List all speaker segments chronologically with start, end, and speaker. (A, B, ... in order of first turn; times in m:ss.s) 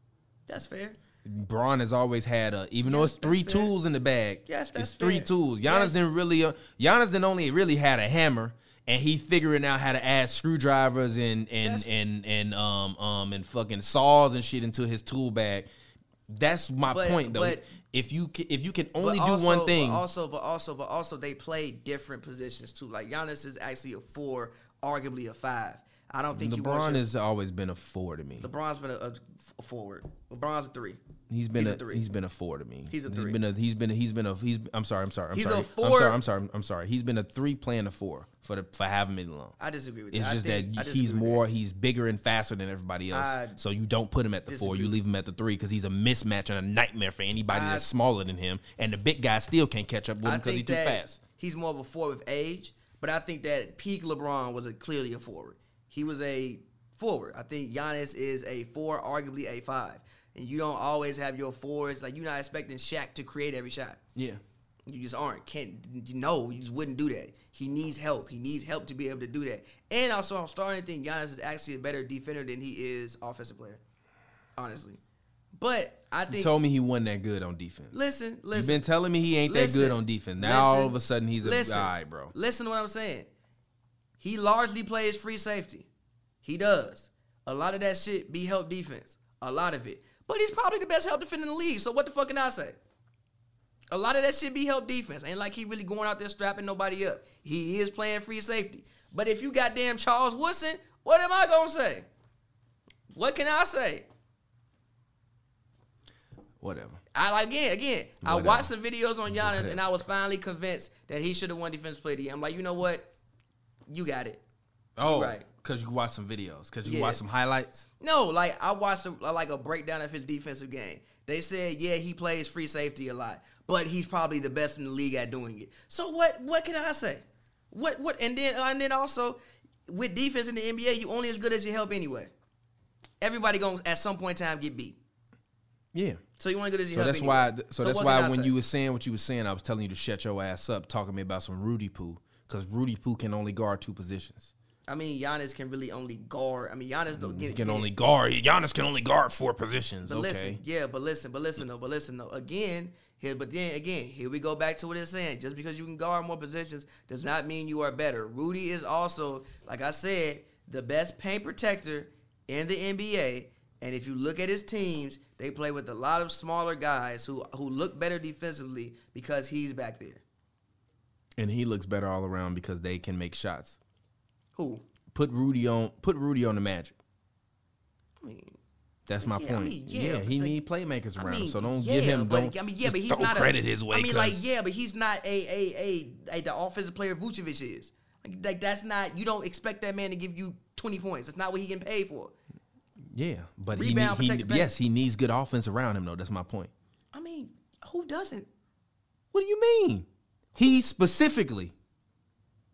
0:00.5-0:01.0 A
0:01.2-0:15.7 B
0:02.8-0:03.7 A
0:04.5-0:06.0 A
0:11.6-0:11.9 A
0:16.3-0:20.0 B
0:16.8-0:17.6 A
0:19.0-0:27.0 A
0:26.3-0:28.5 B
0:28.4-0:31.0 A
0:31.3-0:39.6 B
0:31.5-0:32.0 A
0:32.9-0:33.4 A
0:35.3-0:36.2 A
0:39.6-0:41.4 A
0:40.1-0:51.2 B
0:43.1-0:43.6 A
0:44.5-0:45.0 A
0:47.5-0:47.9 A
0:50.2-1:04.0 A
1:04.1-1:04.4 B
1:04.9-1:13.8 A
1:14.6-1:15.0 A
1:15.5-1:16.5 A
1:16.3-1:18.0 B
1:17.9-1:18.8 A
1:18.5-1:22.3 B
1:19.4-1:23.3 A
1:24.2-1:25.9 A
1:26.4-1:32.8 A
1:33.9-1:42.1 A
1:43.1-1:44.1 A
1:46.6-1:47.0 B
1:47.1-1:53.1 A
1:48.2-1:48.7 B
1:49.3-1:49.8 B
1:53.9-1:54.4 A
1:55.0-1:57.8 B
1:55.0-1:55.4 A
1:56.8-1:57.2 A
1:58.0-2:12.3 A
2:13.2-2:15.0 A
2:15.9-2:16.2 B
2:16.4-2:18.5 A
2:16.9-2:24.5 B
2:24.9-2:27.9 A
2:27.1-2:30.6 B
2:30.0-2:50.2 A
2:51.4-2:53.8 B
2:54.5-2:54.8 A
2:55.1-2:57.0 B
2:58.2-2:58.6 A
2:59.0-3:04.4 B
2:59.2-3:00.6 A
3:01.2-3:12.3 A
3:13.1-3:16.7 B
3:13.7-3:14.7 A
3:17.1-3:18.5 A
3:19.3-3:21.7 B